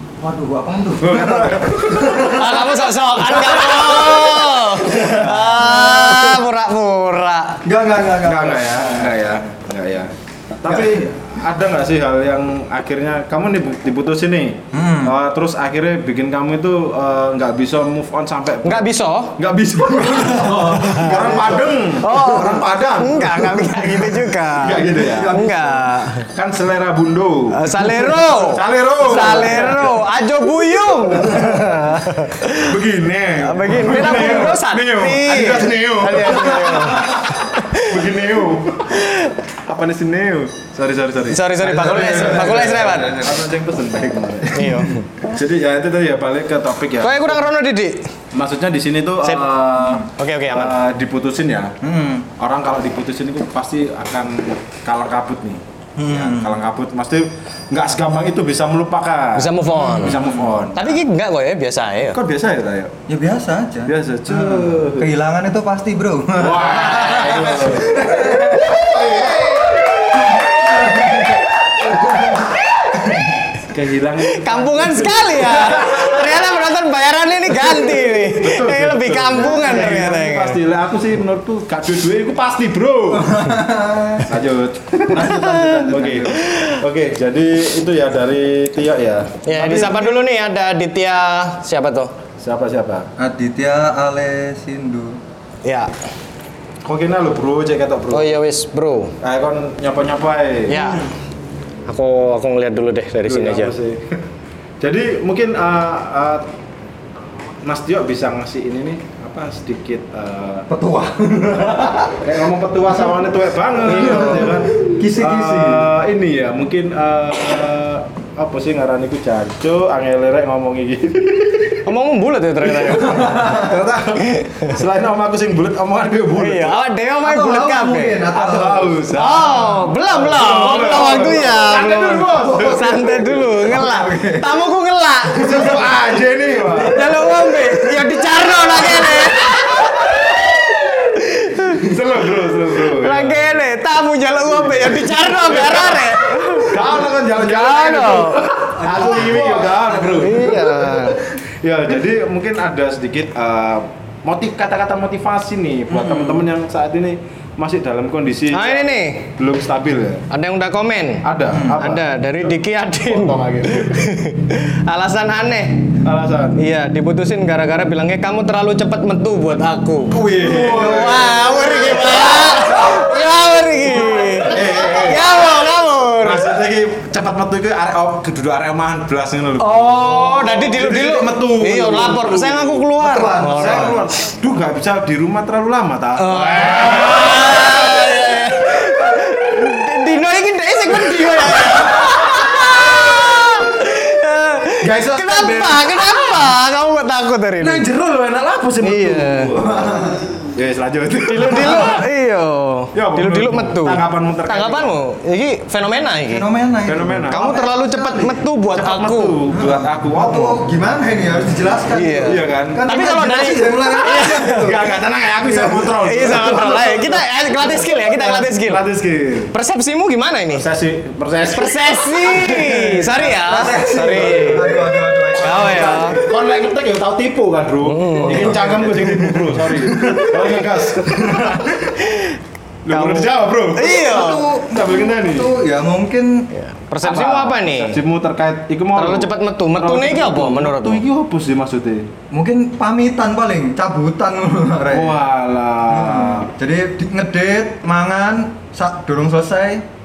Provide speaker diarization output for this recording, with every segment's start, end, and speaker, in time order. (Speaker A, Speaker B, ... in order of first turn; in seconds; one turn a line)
Speaker A: 0.2-2.7
Speaker B: 1.0-2.4
Speaker C: 2.3-7.6
Speaker A: 3.3-6.4
Speaker A: 7.6-9.2
Speaker B: 8.2-25.4
Speaker A: 10.7-11.1
Speaker A: 14.7-15.2
Speaker C: 18.6-19.4
Speaker A: 19.8-21.7
Speaker C: 22.0-26.3
Speaker A: 22.2-22.5
Speaker A: 24.8-25.9
Speaker B: 26.3-30.0
Speaker C: 27.5-32.7
Speaker B: 31.1-31.9
Speaker B: 32.6-39.1
Speaker C: 33.4-38.1
Speaker C: 38.9-39.3
Speaker B: 39.6-47.5
Speaker C: 41.3-43.1
Speaker A: 41.6-43.4
Speaker C: 44.5-45.0
Speaker C: 47.0-48.0
Speaker B: 48.3-51.8
Speaker A: 49.8-50.1
Speaker C: 50.2-50.8
Speaker A: 51.8-52.3
Speaker B: 52.4-61.0
Speaker A: 56.0-56.6
Speaker C: 59.4-60.2
Speaker A: 59.8-60.6
Speaker C: 60.8-62.2
Speaker B: 62.1-62.9
Speaker A: 63.1-72.5
Speaker B: 63.9-65.1
Speaker B: 66.4-69.5
Speaker A: 73.0-73.3
Speaker B: 73.7-76.5
Speaker C: 74.3-80.6
Speaker B: 77.5-83.4
Speaker A: 83.1-84.3
Speaker B: 84.3-90.2
Speaker A: 85.1-86.5
Speaker C: 86.5-86.8
Speaker C: 89.5-92.1
Speaker B: 92.4-93.1
Speaker A: 93.2-95.2
Speaker C: 95.7-95.9
Speaker B: 96.8-98.4
Speaker C: 98.1-99.1
Speaker B: 99.2-100.9
Speaker C: 100.7-101.0
Speaker A: 100.7-101.0
Speaker C: 101.9-103.7
Speaker B: 103.3-104.2
Speaker B: 104.8-106.5
Speaker B: 107.6-110.7
Speaker A: 110.7-112.2
Speaker B: 112.2-121.8
Speaker C: 113.9-114.5
Speaker A: 114.0-115.9
Speaker C: 121.9-123.4
Speaker A: 122.7-123.7
Speaker B: 123.1-126.8
Speaker C: 124.3-124.7
Speaker C: 126.4-128.2
Speaker A: 127.2-129.0
Speaker B: 128.3-133.0
Speaker C: 129.2-135.7
Speaker A: 132.2-134.5
Speaker B: 135.3-137.2
Speaker C: 136.9-140.0
Speaker C: 141.2-141.8
Speaker B: 141.6-143.6
Speaker C: 142.9-148.4
Speaker B: 144.4-160.2
Speaker A: 148.8-150.5
Speaker C: 148.9-149.2
Speaker C: 150.2-151.2
Speaker A: 155.9-156.4
Speaker C: 158.5-159.3
Speaker C: 160.3-165.9
Speaker B: 161.2-164.1
Speaker B: 166.0-166.6
Speaker C: 166.6-176.5
Speaker B: 170.1-172.9
Speaker A: 170.4-171.3
Speaker B: 174.1-175.4
Speaker B: 176.2-189.4
Speaker C: 179.6-184.0
Speaker A: 183.0-184.0
Speaker C: 186.2-197.8
Speaker B: 191.0-193.1
Speaker B: 194.8-196.5
Speaker B: 197.6-202.0
Speaker C: 198.8-199.5
Speaker A: 199.6-200.4
Speaker C: 201.3-206.4
Speaker B: 202.9-204.9
Speaker A: 206.2-208.0
Speaker B: 206.9-210.6
Speaker C: 207.3-209.4
Speaker A: 209.5-214.9
Speaker C: 211.9-214.7
Speaker B: 212.2-213.1
Speaker B: 214.1-219.5
Speaker A: 215.4-215.8
Speaker C: 216.0-218.8
Speaker C: 219.5-220.7
Speaker B: 220.5-231.8
Speaker C: 221.5-224.6
Speaker A: 223.3-226.3
Speaker C: 225.4-226.2
Speaker C: 227.8-228.6
Speaker A: 228.2-230.7
Speaker A: 231.2-231.5
Speaker C: 232.0-232.3
Speaker B: 232.8-234.1
Speaker C: 232.9-234.4
Speaker A: 233.9-236.5
Speaker B: 234.6-235.5
Speaker C: 236.6-238.0
Speaker B: 237.0-242.1
Speaker C: 238.9-241.0
Speaker A: 242.3-245.2
Speaker B: 244.9-246.5
Speaker A: 245.9-249.8